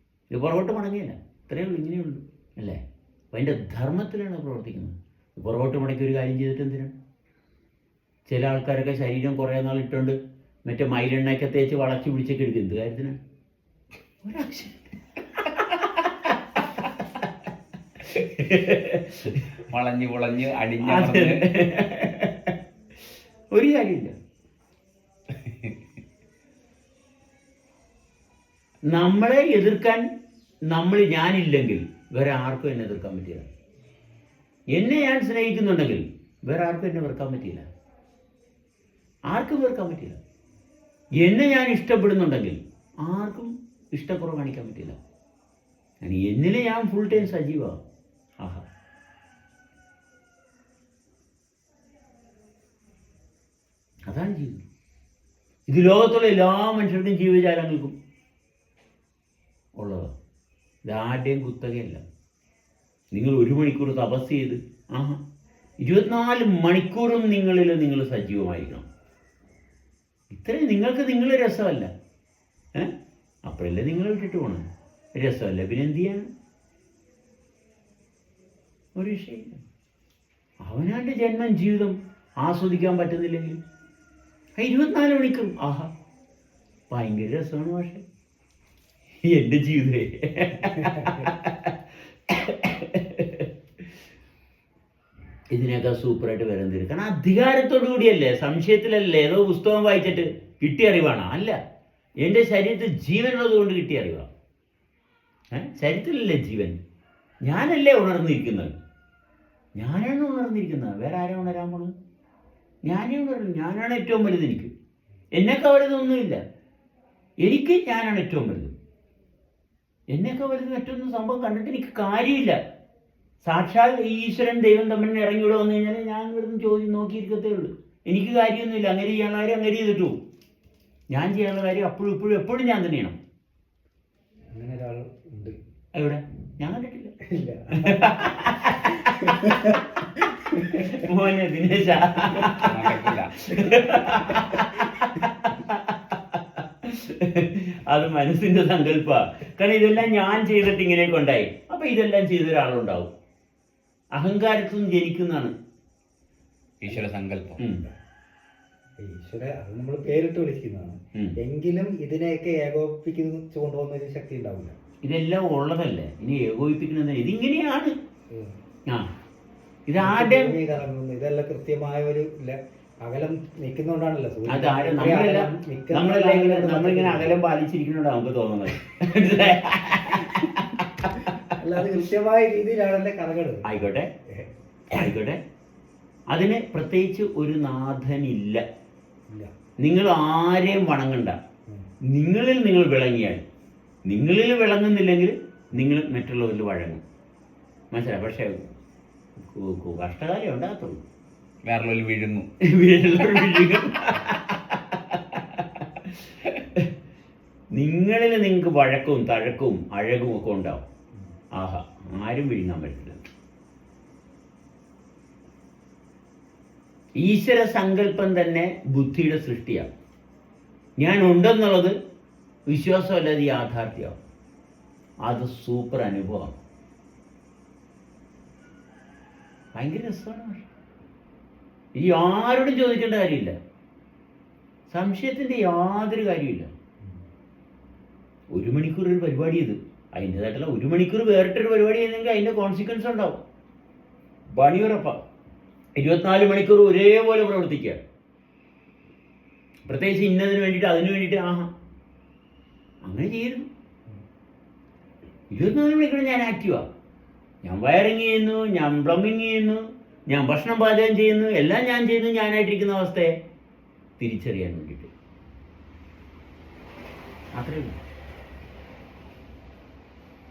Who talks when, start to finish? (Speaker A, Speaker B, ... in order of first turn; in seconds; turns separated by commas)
Speaker A: 0.3-2.8, Speaker A: 3.3-6.9, Speaker A: 8.3-13.2, Speaker A: 14.2-17.2, Speaker A: 18.0-19.6, Speaker B: 19.6-21.5, Speaker A: 20.8-22.5, Speaker A: 23.5-24.1, Speaker B: 25.3-25.8, Speaker A: 28.9-30.0, Speaker A: 30.7-33.5, Speaker A: 34.7-37.6, Speaker A: 39.3-40.2, Speaker A: 41.2-45.0, Speaker A: 46.0-47.8, Speaker A: 54.1-54.6, Speaker A: 55.7-57.9, Speaker A: 59.8-60.1, Speaker A: 60.8-62.0, Speaker A: 63.1-65.2, Speaker A: 65.8-68.8, Speaker A: 70.3-71.9, Speaker A: 73.4-76.3, Speaker A: 79.0-79.6, Speaker A: 80.6-83.6, Speaker A: 84.6-85.9, Speaker A: 86.9-88.0, Speaker A: 89.2-91.8, Speaker C: 90.8-91.3, Speaker A: 92.3-93.5, Speaker A: 95.5-101.6, Speaker A: 102.2-104.2, Speaker A: 105.5-106.8, Speaker A: 107.4-108.7, Speaker A: 109.8-111.9, Speaker A: 112.8-114.7, Speaker A: 115.3-116.4, Speaker A: 117.4-118.7, Speaker A: 120.1-122.6, Speaker A: 123.4-130.2, Speaker A: 131.1-133.2, Speaker C: 134.5-135.6, Speaker A: 135.9-137.1, Speaker C: 137.2-138.3, Speaker A: 137.7-153.1, Speaker C: 139.0-139.8, Speaker C: 140.5-140.9, Speaker B: 142.4-144.1, Speaker A: 154.1-155.5, Speaker B: 156.8-157.6, Speaker C: 156.9-157.9, Speaker A: 157.6-157.8, Speaker C: 159.0-164.7, Speaker A: 165.0-167.9, Speaker A: 169.9-170.6, Speaker C: 170.0-177.4, Speaker A: 174.5-181.6, Speaker C: 181.5-183.7, Speaker A: 183.6-184.1, Speaker A: 184.9-185.4, Speaker A: 186.3-188.6, Speaker A: 189.8-191.3, Speaker A: 192.1-193.4, Speaker A: 194.1-197.0, Speaker A: 197.9-198.7, Speaker A: 199.3-201.0, Speaker B: 201.6-202.5, Speaker A: 202.6-206.9, Speaker A: 207.7-210.8, Speaker A: 211.6-213.2, Speaker A: 217.2-219.9, Speaker A: 221.0-221.9, Speaker A: 222.7-224.2, Speaker A: 225.2-226.6, Speaker A: 229.7-230.7, Speaker A: 231.9-233.5, Speaker A: 234.9-236.7, Speaker A: 238.5-243.4, Speaker A: 244.5-245.2, Speaker A: 245.9-248.0, Speaker A: 249.8-251.7, Speaker A: 253.0-253.7, Speaker A: 255.5-256.9, Speaker A: 257.6-263.3, Speaker A: 264.2-265.1, Speaker A: 267.5-268.0